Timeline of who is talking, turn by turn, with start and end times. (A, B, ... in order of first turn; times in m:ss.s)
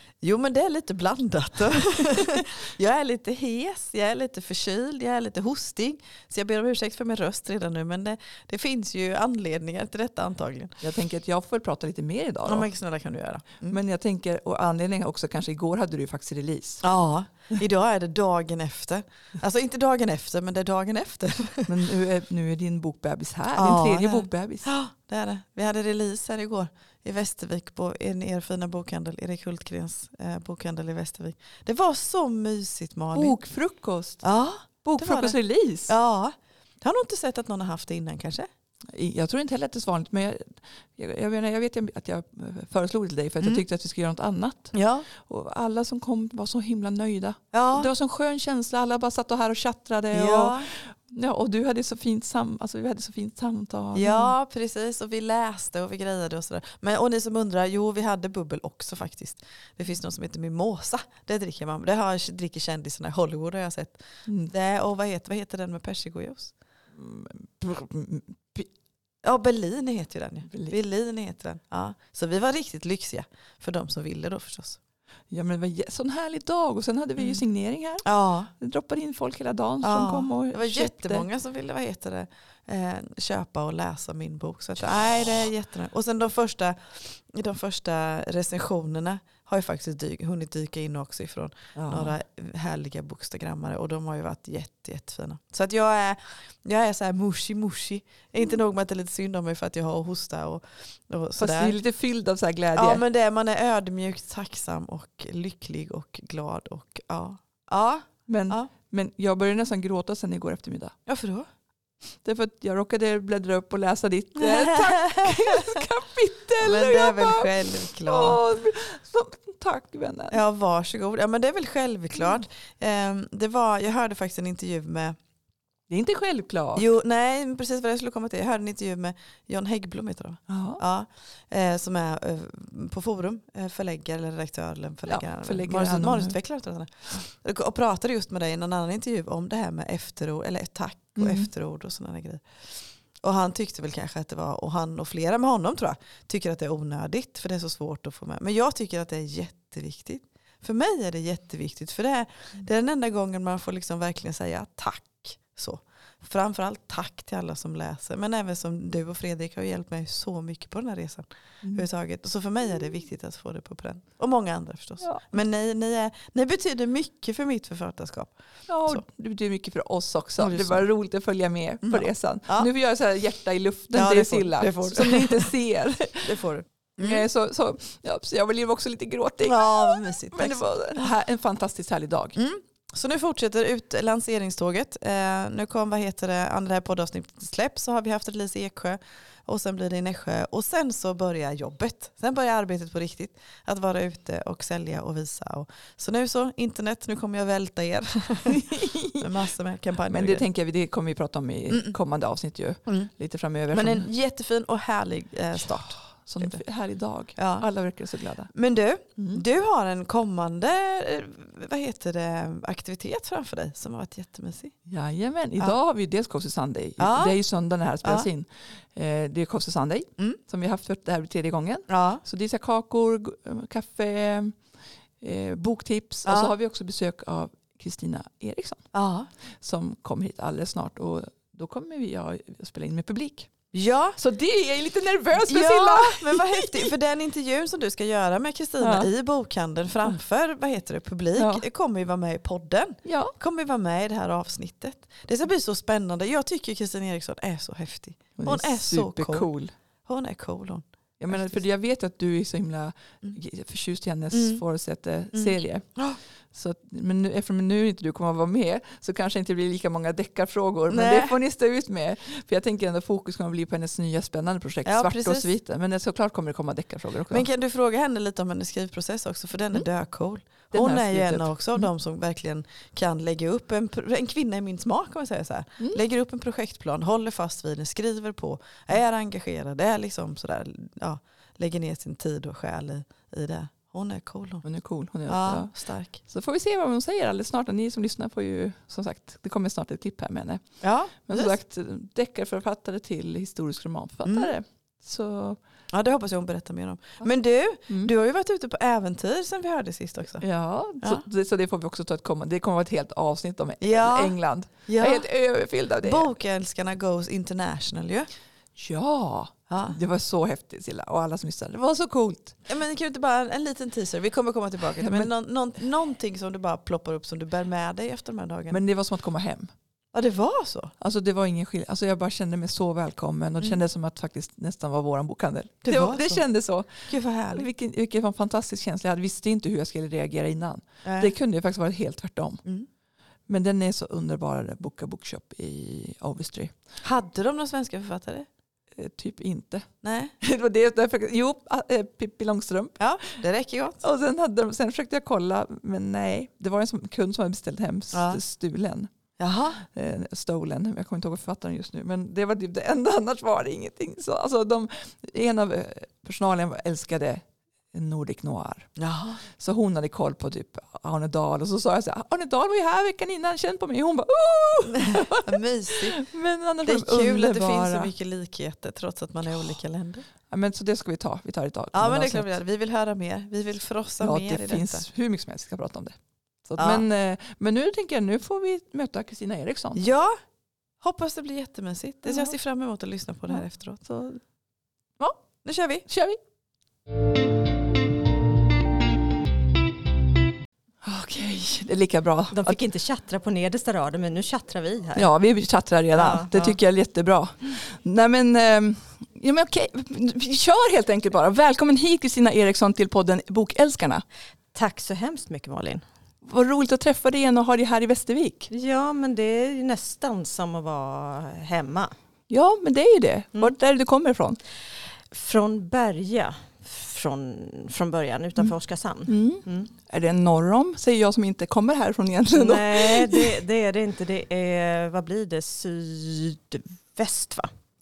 0:00.2-0:10.8 A
0:10.8-0:12.7 B
0:12.4-0:13.8 A
0:13.7-0:16.8 B
0:16.8-0:21.7 A
0:21.7-0:24.7 B
0:23.5-0:33.4 A
0:33.1-0:34.3 B
0:34.2-0:38.5 A
0:34.8-0:35.9 B
0:38.9-0:54.3 B
0:44.7-0:45.1 A
0:47.5-0:47.9 A
0:50.1-0:50.7 A
0:53.9-1:06.5 A
1:04.3-1:04.5 B
1:07.0-1:08.7 B
1:09.2-1:14.8 A
1:10.5-1:10.8 B
1:15.3-1:18.1 B
1:17.2-1:17.4 A
1:18.0-1:18.5 A
1:18.6-1:21.2 B
1:19.8-1:41.8 A
1:31.8-1:32.1 B
1:41.4-1:43.0 B
1:42.7-1:48.7 A
1:48.3-1:50.9 B
1:51.1-1:51.5 A
1:52.2-2:00.4 B
1:54.4-1:55.8 A
1:56.6-1:58.4 A
2:00.3-2:05.2 A
2:05.9-2:06.8 B
2:06.8-2:22.5 A
2:10.5-2:10.8 B
2:15.1-2:16.3 B
2:21.2-2:21.5 B
2:23.2-2:49.0 A
2:48.7-2:56.4 B
2:50.4-2:50.8 A
2:51.8-2:52.7 A
2:53.9-2:55.5 A
2:56.2-2:57.3 A
2:57.0-3:02.4 B
2:59.4-3:01.1 A
3:02.4-3:20.4 A
3:18.5-3:19.3 B
3:20.1-3:24.1 B
3:21.7-3:22.0 A
3:23.7-3:26.6 A
3:25.7-3:28.5 B
3:27.4-3:27.7 A
3:28.5-3:34.7 A
3:29.2-3:29.4 B
3:34.9-3:44.6 B
3:37.0-3:37.4 A
3:41.9-3:42.2 A
3:45.2-3:48.8 B
3:46.2-3:46.5 A
3:48.9-3:49.3 A
3:49.6-3:53.5 B
3:53.7-3:54.2 A
3:54.2-3:56.9 B
3:55.5-4:09.5 A
3:58.8-3:59.1 B
4:01.4-4:01.6 B
4:03.0-4:03.3 B
4:08.4-4:09.7 B
4:10.0-4:11.6 A
4:11.2-4:16.0 B
4:14.3-4:14.6 A
4:15.3-4:16.2 A
4:16.5-4:27.5 B
4:20.9-4:21.3 A
4:24.8-4:25.5 A
4:27.3-4:44.6 A
4:30.7-4:31.9 B
4:44.6-4:50.6 B
4:45.3-4:46.2 A
4:50.8-4:51.5 A
4:51.3-4:55.6 B
4:54.2-4:54.5 A
4:55.9-5:00.4 A
5:00.4-5:06.3 B
5:03.8-5:05.2 A
5:06.0-5:08.3 A
5:08.8-5:12.6 B
5:09.7-5:10.0 A
5:12.7-5:18.8 A
5:14.9-5:15.3 B
5:18.7-5:19.7 B
5:20.1-5:20.9 A
5:21.0-5:32.6 B
5:25.8-5:26.4 A
5:27.1-5:27.7 A
5:31.0-5:31.3 A
5:33.5-5:36.7 B
5:37.0-5:38.5 A
5:39.0-5:39.9 B
5:40.0-5:40.3 A
5:40.4-5:43.0 B
5:43.0-5:44.0 A
5:44.0-5:49.1 B
5:48.1-5:48.4 A
5:49.4-5:49.8 A
5:49.9-5:58.9 B
5:59.0-5:59.4 A
5:59.6-6:08.1 B
6:05.0-6:06.2 A
6:06.8-6:10.2 A
6:10.5-6:12.5 B
6:11.9-6:15.0 A
6:14.2-6:20.0 B
6:16.8-6:17.0 A
6:20.0-6:20.4 A
6:21.0-6:24.4 A
6:25.6-6:26.0 A
6:26.1-6:26.4 B
6:31.0-6:32.8 B
6:32.5-6:35.3 C
6:35.2-6:44.2 B
6:36.1-6:36.8 C
6:44.7-6:46.0 C
6:46.4-6:48.7 B
6:48.7-6:52.1 C
6:52.5-6:54.6 B
6:55.3-6:59.9 C
6:59.3-7:03.6 B
7:02.5-7:07.7 C